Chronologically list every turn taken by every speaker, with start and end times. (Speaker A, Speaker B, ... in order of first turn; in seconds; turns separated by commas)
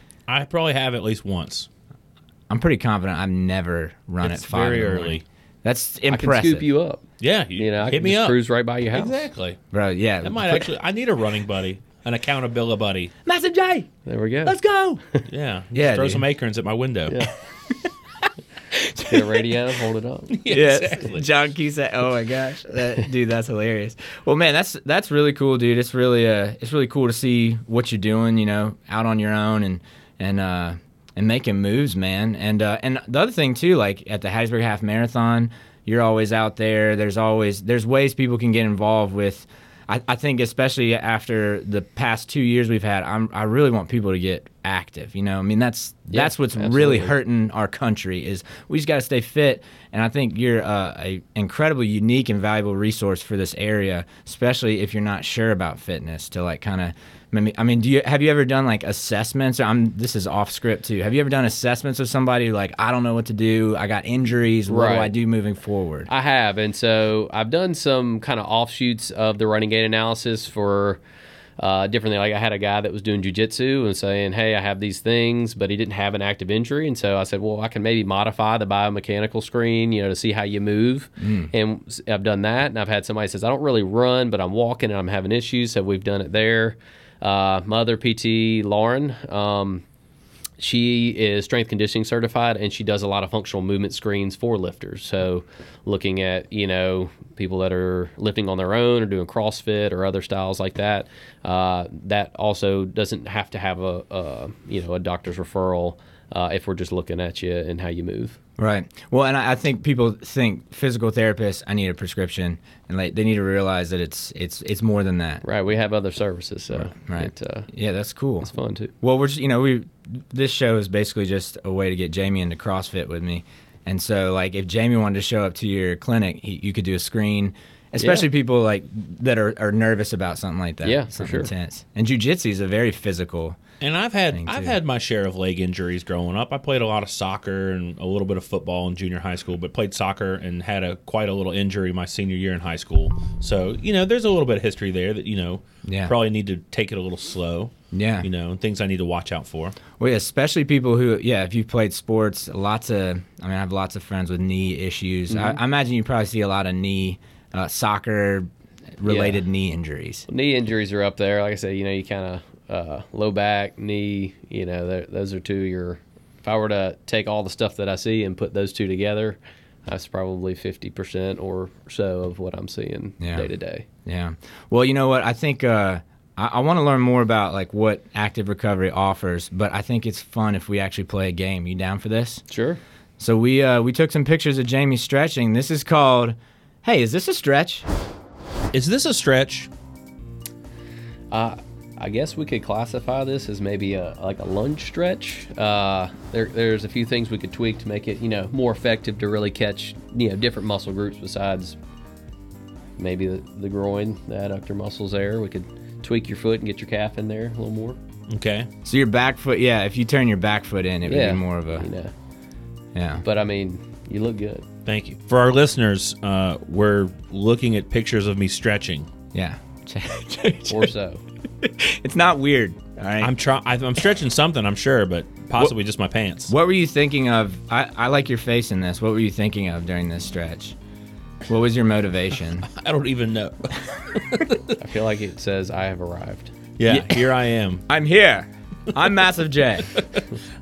Speaker A: 0.3-1.7, Speaker B: 2.5-6.7, Speaker A: 4.2-5.2, Speaker C: 6.1-7.0, Speaker A: 7.2-8.4, Speaker C: 7.6-9.2, Speaker A: 8.9-9.6, Speaker B: 9.7-10.7, Speaker A: 10.2-13.1, Speaker B: 13.2-13.9, Speaker C: 14.1-14.6, Speaker B: 14.4-15.0, Speaker A: 15.3-17.2, Speaker B: 15.7-16.2, Speaker C: 17.1-17.3, Speaker B: 18.7-19.4, Speaker C: 19.0-20.4, Speaker A: 20.3-21.2, Speaker B: 20.4-66.1, Speaker C: 46.1-47.1, Speaker C: 64.7-65.1, Speaker C: 66.1-71.0, Speaker C: 71.6-89.8, Speaker B: 81.2-81.5, Speaker C: 90.6-108.4, Speaker B: 108.6-115.4, Speaker C: 115.4-117.7, Speaker B: 116.7-118.5, Speaker C: 118.4-118.9, Speaker B: 119.0-133.6, Speaker C: 128.0-128.3, Speaker C: 130.8-131.5, Speaker A: 133.8-149.8, Speaker B: 134.3-134.8, Speaker B: 145.8-146.1, Speaker B: 147.9-148.3, Speaker B: 150.0-158.5, Speaker C: 155.3-155.6, Speaker B: 159.0-160.2, Speaker C: 159.1-159.4, Speaker C: 160.3-173.8, Speaker B: 173.2-173.5, Speaker B: 174.1-182.4, Speaker C: 182.5-182.8, Speaker B: 183.2-187.8, Speaker A: 188.7-189.7, Speaker C: 191.3-201.8, Speaker C: 203.0-208.0, Speaker A: 208.3-208.7, Speaker B: 208.8-211.9, Speaker C: 211.1-212.1, Speaker B: 212.9-213.2, Speaker C: 213.2-214.7, Speaker A: 214.8-219.1, Speaker B: 219.3-220.9, Speaker C: 220.7-221.2, Speaker B: 221.6-223.3, Speaker A: 223.2-226.5, Speaker B: 226.5-230.7, Speaker B: 231.5-232.7, Speaker A: 232.7-234.8, Speaker C: 234.8-236.5, Speaker A: 236.8-237.8, Speaker B: 236.9-237.2, Speaker B: 237.9-239.9